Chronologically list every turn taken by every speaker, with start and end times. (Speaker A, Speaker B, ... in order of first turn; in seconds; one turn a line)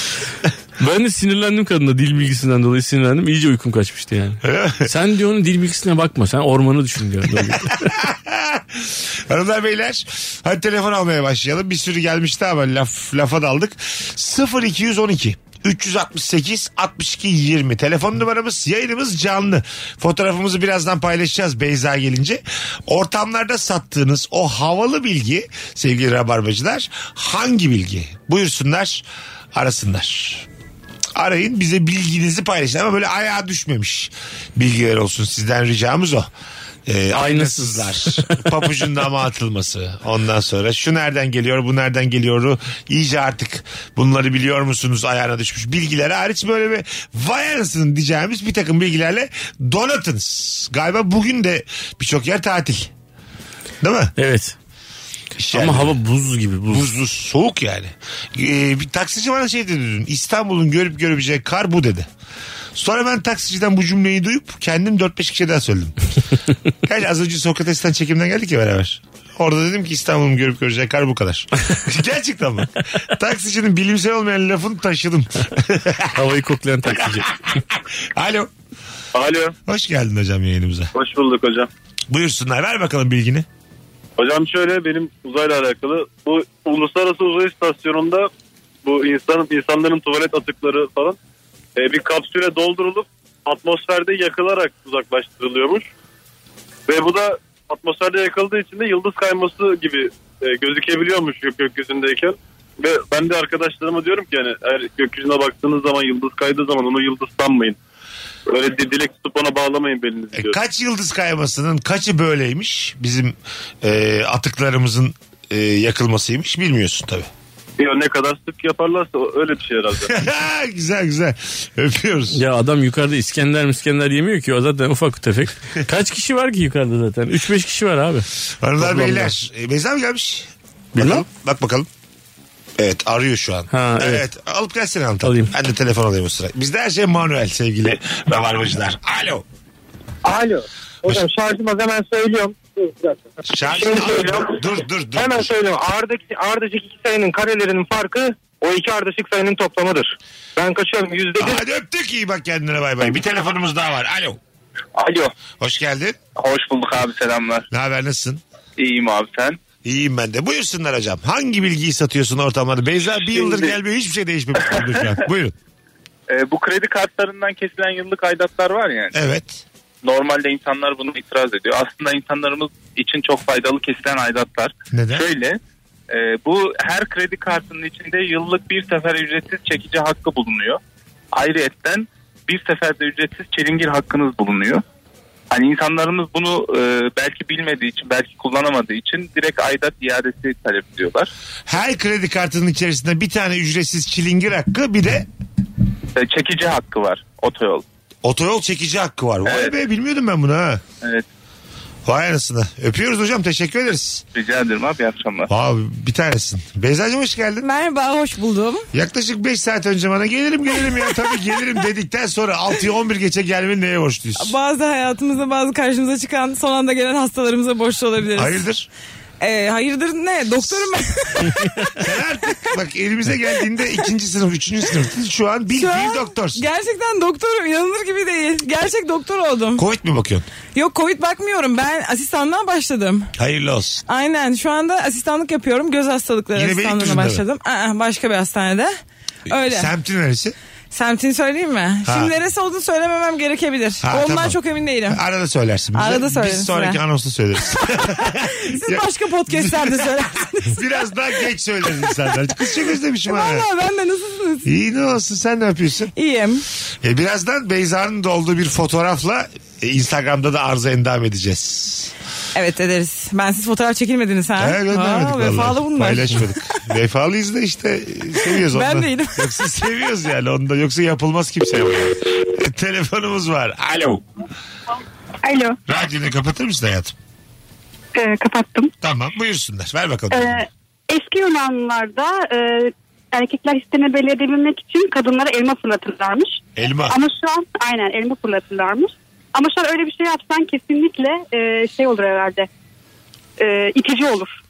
Speaker A: 0.8-7.8
Speaker B: 4.4-4.9
Speaker B: 7.4-30.5
Speaker B: 31.1-36.3
Speaker B: 36.9-52.9
Speaker A: 37.1-38.8
Speaker B: 53.8-54.1
Speaker A: 54.2-54.5
Speaker B: 55.4-56.0
Speaker A: 55.5-56.9
Speaker B: 56.7-62.1
Speaker B: 62.8-66.0
Speaker B: 66.8-76.2
Speaker A: 76.1-77.3
Speaker B: 76.9-78.5
Speaker C: 79.1-79.5
Speaker B: 79.7-80.9
Speaker C: 81.0-81.7
Speaker B: 82.1-83.5
Speaker C: 84.2-88.3
Speaker C: 88.8-91.2
Speaker C: 91.8-95.9
Speaker C: 96.9-107.8
Speaker C: 108.5-110.6
Speaker B: 110.3-117.3
Speaker C: 117.8-120.2
Speaker B: 120.1-122.4
Speaker A: 122.3-128.3
Speaker B: 128.6-131.9
Speaker A: 128.8-129.3
Speaker A: 130.9-131.2
Speaker B: 132.8-139.4
Speaker A: 133.7-134.2
Speaker A: 135.2-135.5
Speaker D: 140.2-144.6
Speaker B: 143.5-145.5
Speaker D: 145.2-151.6
Speaker B: 151.4-154.4
Speaker E: 154.9-155.3
Speaker B: 155.6-156.2
Speaker E: 156.3-157.7
Speaker B: 157.7-158.4
Speaker E: 158.8-159.6
Speaker B: 159.8-165.6
Speaker E: 163.1-163.8
Speaker E: 166.3-169.1
Speaker B: 169.1-169.6
Speaker E: 170.0-175.6
Speaker B: 174.9-175.3
Speaker E: 176.1-180.8
Speaker E: 181.3-184.8
Speaker E: 185.5-191.3
Speaker B: 191.7-195.3
Speaker E: 196.2-197.8
Speaker B: 198.2-200.8
Speaker E: 199.4-199.8
Speaker B: 202.1-204.2
Speaker E: 204.3-205.5
Speaker B: 205.5-207.7
Speaker F: 207.6-208.9
Speaker B: 208.9-214.6
Speaker F: 214.4-218.6
Speaker B: 218.3-218.9
Speaker F: 219.4-221.7
Speaker B: 221.9-226.6
Speaker F: 225.7-229.8
Speaker B: 229.8-230.5
Speaker F: 230.8-233.3
Speaker B: 233.4-234.0
Speaker F: 234.1-238.9
Speaker B: 236.5-237.4
Speaker F: 239.5-239.9
Speaker B: 239.5-240.6
Speaker F: 240.9-245.2
Speaker B: 242.1-242.3
Speaker B: 244.0-244.6
Speaker B: 245.1-250.1
Speaker F: 245.9-247.0
Speaker F: 248.0-250.8
Speaker B: 250.7-253.7
Speaker F: 253.3-254.7
Speaker B: 254.7-256.1
Speaker F: 256.2-256.6
Speaker B: 257.0-262.1
Speaker F: 262.6-266.4
Speaker B: 264.6-274.2
Speaker F: 268.5-269.5
Speaker G: 275.4-275.8
Speaker B: 275.9-277.1
Speaker G: 278.2-278.9
Speaker B: 279.0-280.6
Speaker G: 280.3-292.7
Speaker B: 286.8-287.2
Speaker G: 293.6-294.5